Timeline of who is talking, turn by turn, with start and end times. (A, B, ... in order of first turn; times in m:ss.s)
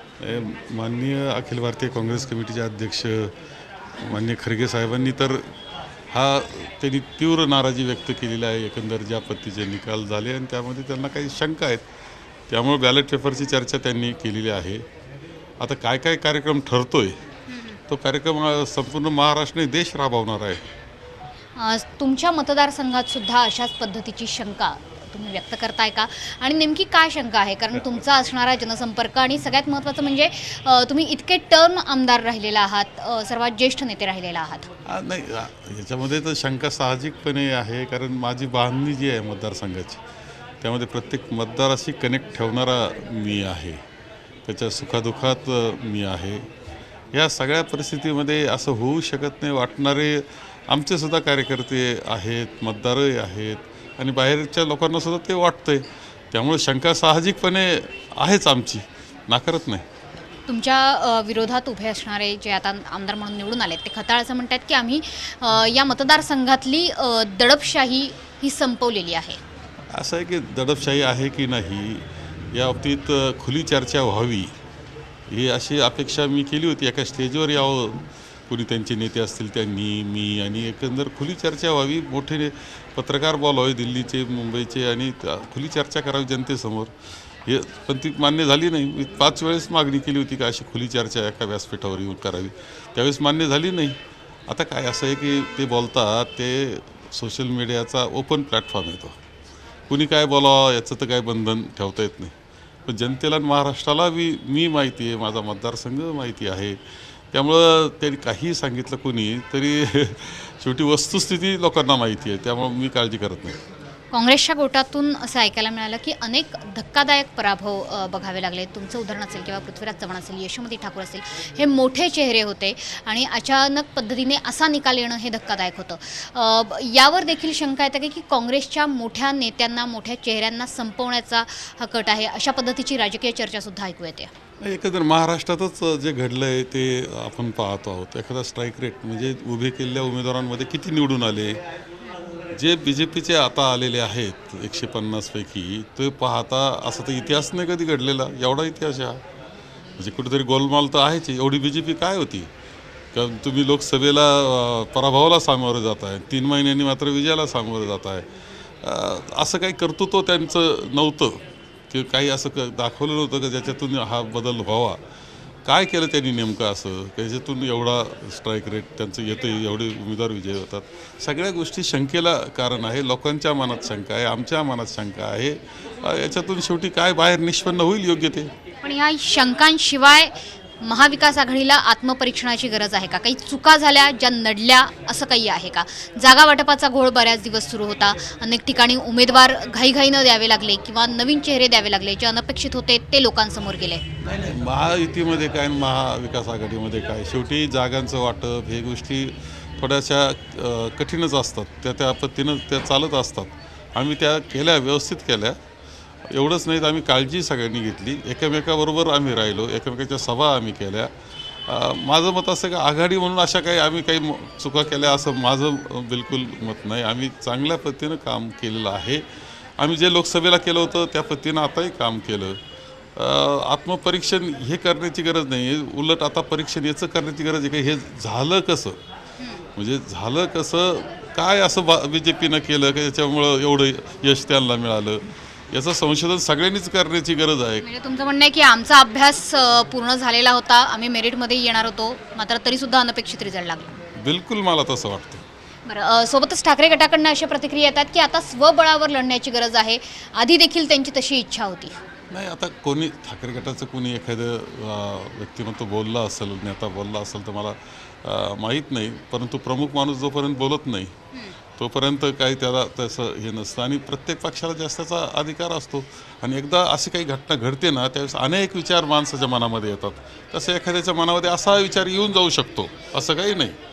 0:00.2-0:03.4 A
0:04.0-0:05.5 A
0:06.1-0:11.8 A
0:12.5-0:14.8 A
0:15.6-0:17.2 A
0:17.5-0:17.8 B
0:17.9-0:20.7 A
0:21.6-0:34.7 B
0:34.9-0:40.0 A
0:40.6-0:43.8 A
0:44.5-0:46.5 A
0:47.1-0:59.8 A
1:00.5-1:09.4 B
1:09.9-1:14.5 A
1:15.3-1:26.9 A
1:27.5-1:39.2 A
1:39.9-1:42.4 A
1:42.9-1:46.8 A
1:47.3-1:53.6 A
1:54.1-2:14.3 B
2:14.6-2:21.6 A
2:22.6-2:29.2 A
2:30.0-2:32.5 A
2:33.1-2:38.3 A
2:38.8-2:45.0 A
2:45.7-2:58.5 A
2:58.8-3:14.0 B
3:14.2-3:25.6 A
3:26.3-3:31.1 A
3:31.7-3:39.2 A
3:39.8-3:42.6 A
3:43.2-3:49.0 A
3:49.4-3:49.7 B
3:49.8-3:57.8 A
3:57.8-4:04.0 B
4:04.2-4:05.4 A
4:05.9-4:12.0 B
4:12.3-4:21.1 A
4:21.8-4:33.8 A